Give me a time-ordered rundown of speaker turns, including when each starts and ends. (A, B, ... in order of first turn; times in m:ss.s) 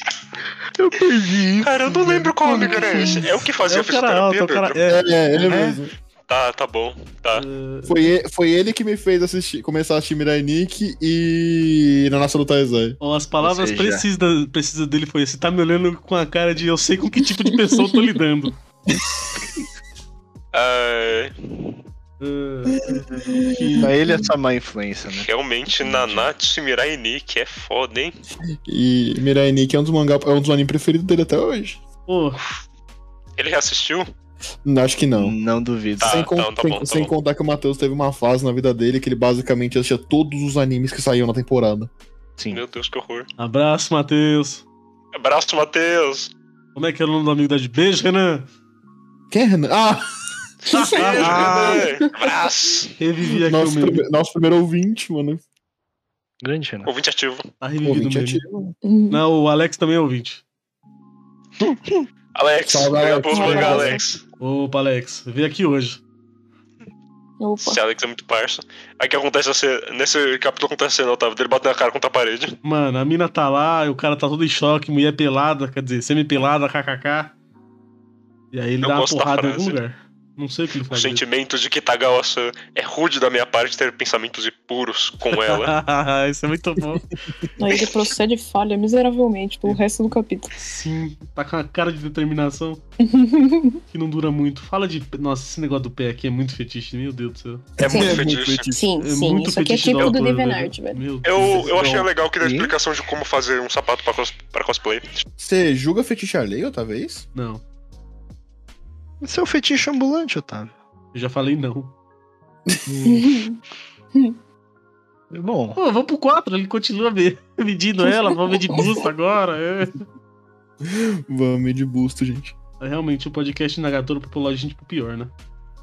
0:00.8-0:03.2 A
0:01.6-0:04.8 B
0:02.6-0:03.2 C
0:03.7-0:05.0 D
0:04.9-0:05.9 C
0:05.4-0:05.8 A
0:06.3-0:07.4 B
0:07.3-0:08.0 D
0:07.9-0:13.0 C
0:13.0-0:18.6 D
0:13.4-0:14.1 A
0:17.8-0:18.1 E
0:20.5-0:21.7 B
0:22.2-0:22.8 D
0:22.9-0:23.7 C
0:23.5-0:23.9 D
0:23.8-0:25.3 A
0:25.1-0:28.2 B
0:28.6-0:31.8 C
0:32.1-0:32.4 D
0:33.4-0:34.1 B
0:34.6-0:35.4 C
0:35.2-0:36.1 A
0:36.0-0:41.9 C
0:36.0-0:37.1 B
0:42.4-0:42.6 A
0:42.5-0:43.3 B
0:43.4-0:44.6 D
0:45.1-0:46.3 B
0:46.8-0:48.5 D
0:49.3-0:50.1 C
0:50.7-0:51.8 D
0:50.9-0:52.9 B
0:51.0-0:52.0 E
0:53.0-0:54.0 D
0:53.4-0:55.4 C
0:56.4-0:56.9 A
0:56.9-0:57.5 B
0:57.6-0:58.4 D
0:57.8-0:58.8 C
0:58.8-0:59.2 E
0:59.1-1:00.4 D
1:01.6-1:02.0 A
1:02.4-1:04.2 B
1:02.7-1:04.0 C
1:03.3-1:04.0 E
1:04.4-1:06.0 D
1:07.4-1:07.8 E
1:07.6-1:12.6 B
1:12.6-1:17.3 D
1:18.5-1:21.2 D
1:18.8-1:19.8 B
1:20.9-1:25.7 B
1:25.3-1:27.0 D
1:27.6-1:30.6 E
1:30.6-1:32.8 D
1:33.0-1:33.8 E
1:33.9-1:37.7 D
1:37.8-1:38.9 C
1:37.8-1:38.7 B
1:37.9-1:41.0 E
1:39.0-1:42.1 D
1:41.2-1:45.2 B
1:42.4-1:42.8 A
1:45.4-1:47.3 C
1:47.4-1:47.6 D
1:49.2-1:50.8 A
1:51.1-1:51.9 D
1:52.9-1:53.3 A
1:53.1-1:53.6 E
1:55.3-1:55.8 A
1:55.8-2:00.0 D
1:58.1-1:58.8 E
2:00.8-2:02.6 C
2:02.8-2:05.3 D